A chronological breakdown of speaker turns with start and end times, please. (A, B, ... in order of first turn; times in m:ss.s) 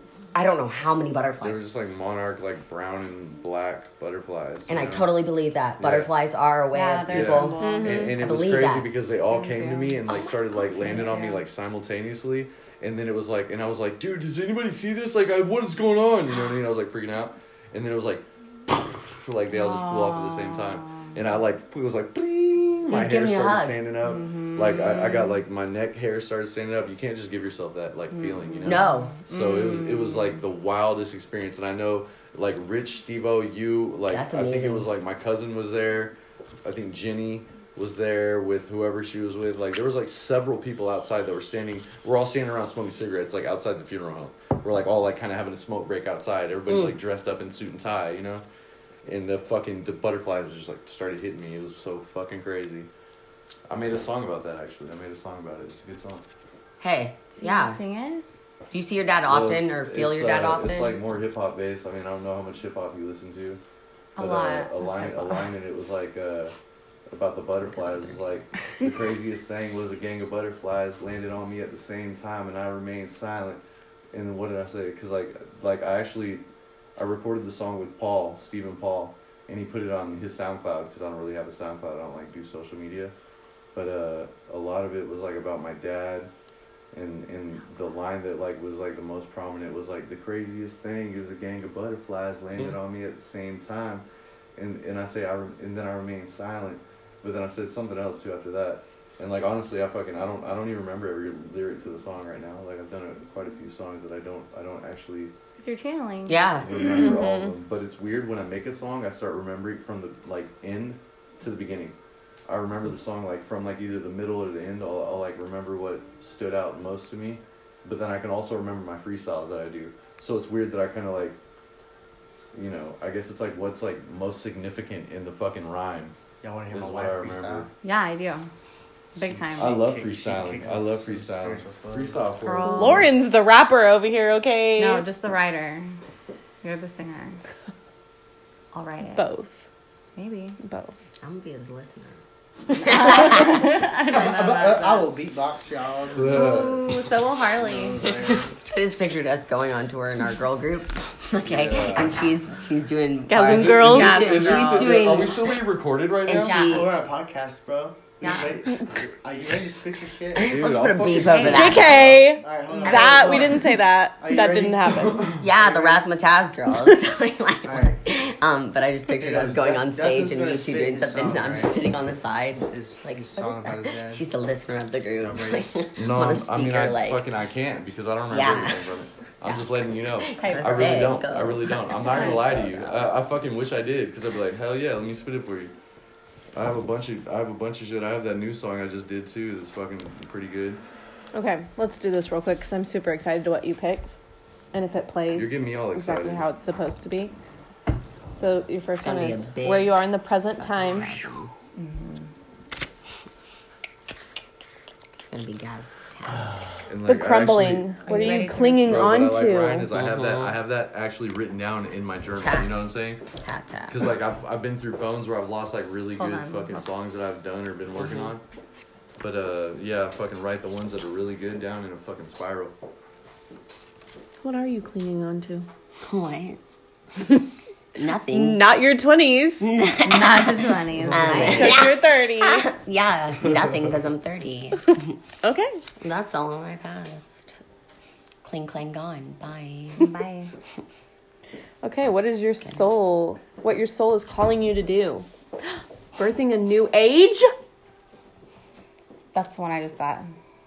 0:00.3-0:01.7 A
0:01.4-0:05.2 B
0:04.7-0:08.9 A
0:05.8-0:06.1 B
0:06.7-0:08.1 C
0:07.1-0:48.4 B
0:07.6-0:08.2 D
0:09.2-0:10.1 C
0:10.8-0:11.4 C
0:19.5-0:21.1 C
0:22.9-0:23.8 A
0:24.0-0:25.4 C
0:28.1-0:30.3 C
0:28.6-0:29.2 A
0:34.1-0:34.9 A
0:49.0-0:52.9 B
0:53.7-0:56.2 B
0:56.8-0:57.8 A
0:57.4-0:58.2 C
0:58.7-1:01.0 A
0:59.2-1:03.6 B
1:04.2-1:05.5 C
1:04.2-1:06.5 B
1:07.1-1:16.4 B
1:07.7-1:08.2 A
1:17.0-1:23.1 B
1:23.7-1:26.3 B
1:26.9-1:34.0 B
1:34.6-1:45.3 B
1:45.6-1:47.1 C
1:46.3-1:47.4 A
1:46.6-1:51.9 B
1:47.0-1:47.5 D
1:52.5-2:01.4 B
2:02.5-2:06.1 B
2:06.4-2:07.7 E
2:06.7-2:07.7 B
2:07.8-2:08.5 C
2:09.1-2:09.9 C
2:09.4-2:13.1 B
2:09.6-2:12.2 E
2:12.4-2:13.1 C
2:12.6-2:15.0 D
2:14.8-2:16.0 C
2:16.6-2:17.4 C
2:18.7-2:19.3 C
2:19.2-2:19.6 D
2:20.2-2:20.6 C
2:20.6-2:20.9 D
2:21.2-2:22.2 A
2:22.7-2:23.7 A
2:22.8-2:25.1 C
2:24.1-2:26.6 E
2:26.1-2:27.0 B
2:26.3-2:28.1 C
2:27.6-2:28.6 E
2:28.6-2:35.6 A
2:31.4-2:32.2 B
2:33.3-2:34.8 D
2:33.4-2:36.7 B
2:36.2-2:36.9 A
2:36.4-2:36.9 C
2:36.7-2:40.6 E
2:38.2-2:38.5 C
2:40.4-2:42.4 B
2:40.4-2:42.2 A
2:41.2-2:41.8 C
2:41.5-2:45.2 D
2:42.4-2:46.0 E
2:42.7-2:43.6 C
2:45.1-2:45.4 B
2:45.4-2:57.2 A
2:47.6-2:48.0 E
2:49.2-2:51.8 E
2:52.7-2:54.2 E
2:55.2-2:55.6 E
2:56.0-3:05.7 B
2:58.3-2:58.8 A
3:00.3-3:03.0 A
3:00.3-3:01.2 C
3:02.1-3:02.5 C
3:06.5-3:10.8 B
3:11.3-3:14.1 D
3:14.7-3:17.3 D
3:15.3-3:16.5 B
3:18.3-3:21.2 D
3:19.0-3:20.0 A
3:20.6-3:21.5 A
3:21.8-3:22.3 C
3:25.2-3:26.5 A
3:26.9-3:27.9 B
3:27.0-3:29.9 D
3:28.0-3:29.1 C
3:28.8-3:33.2 B
3:29.9-3:30.6 A
3:32.4-3:32.8 A
3:33.4-3:34.0 A
3:33.9-3:38.4 B
3:36.2-3:37.0 C
3:38.0-3:38.3 A
3:39.2-3:42.7 B
3:44.4-3:45.7 D
3:46.0-3:46.6 A
3:48.0-3:48.6 A
3:48.3-3:49.6 D
3:49.6-3:55.2 A
3:50.0-3:51.8 C
3:51.5-3:52.7 D
3:55.4-3:55.8 D
3:56.0-3:57.6 A
3:58.4-4:00.1 A
4:00.0-4:00.5 C
4:01.8-4:05.2 D
4:06.2-4:07.5 D
4:09.3-4:10.3 C